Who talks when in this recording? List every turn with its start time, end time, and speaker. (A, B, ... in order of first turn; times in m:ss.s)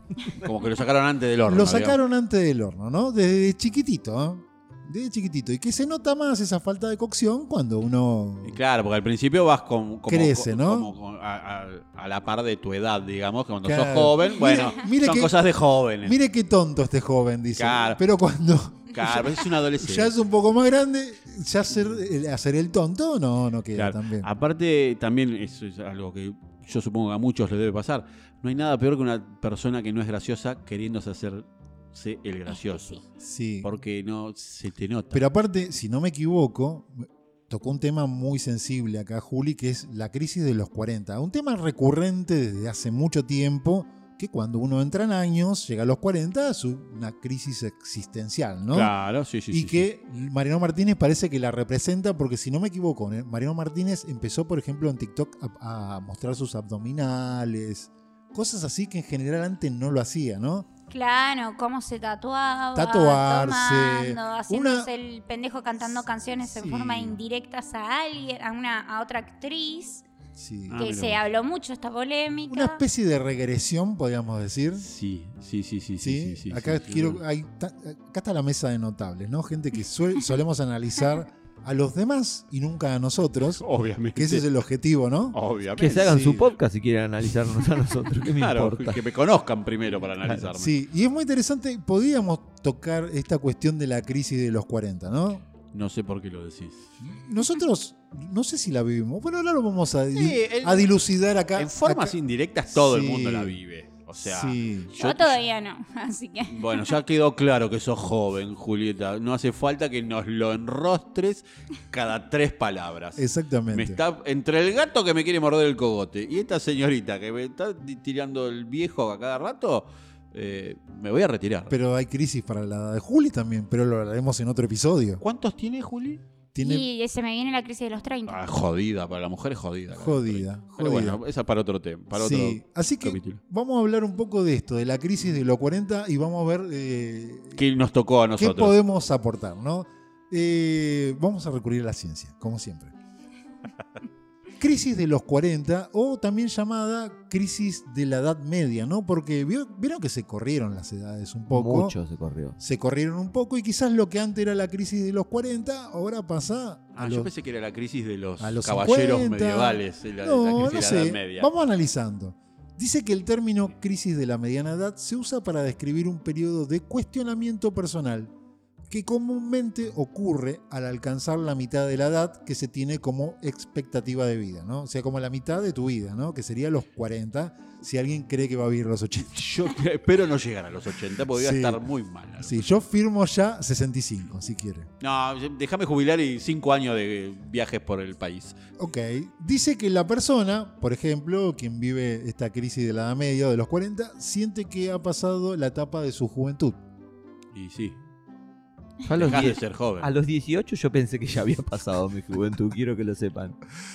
0:00.4-0:02.0 A
0:01.4-0:08.6 B
0:08.4-0:16.2 A
0:10.1-0:10.9 B
0:13.6-0:15.3 B
0:16.0-0:24.3 B
0:17.6-0:18.0 A
0:18.9-0:20.1 A
0:23.7-0:33.0 A
0:32.5-0:33.0 C
0:33.2-0:33.7 B
0:33.6-0:35.2 A
0:35.1-0:48.9 B
0:48.7-0:49.8 A
0:49.5-1:00.7 B
1:00.9-1:10.0 C
1:02.7-1:04.9 B
1:06.5-1:07.2 B
1:10.3-1:10.8 B
1:10.7-1:11.2 A
1:10.8-1:12.8 C
1:12.5-1:14.8 B
1:14.8-1:17.2 A
1:16.0-1:26.5 B
1:23.6-1:24.4 A
1:25.3-1:26.2 A
1:25.8-1:29.0 D
1:28.2-1:30.7 A
1:30.2-1:30.5 D
1:30.6-1:35.4 B
1:35.7-1:36.9 A
1:37.0-1:42.2 B
1:40.1-1:40.9 A
1:41.6-1:45.4 A
1:42.7-1:43.6 B
1:44.2-1:44.9 B
1:45.0-1:46.9 C
1:46.5-2:01.7 A
1:53.2-1:54.0 B
2:01.7-2:05.2 B
2:05.2-2:06.2 A
2:06.5-2:06.9 B
2:06.6-2:08.4 C
2:08.3-2:13.4 A
2:09.9-2:11.2 B
2:12.1-2:17.6 B
2:17.6-2:18.7 A
2:18.4-2:22.9 B
2:24.6-2:32.0 B
2:31.5-2:32.6 D
2:32.6-2:37.3 B
2:37.0-2:41.5 A
2:38.4-2:48.3 B
2:48.9-2:59.7 B
2:59.3-3:02.7 A
3:01.3-3:01.8 B
3:02.4-3:04.9 B
3:05.0-3:08.6 A
3:08.8-3:16.8 B
3:17.5-3:18.0 A
3:19.0-3:23.6 D
3:19.1-3:20.1 A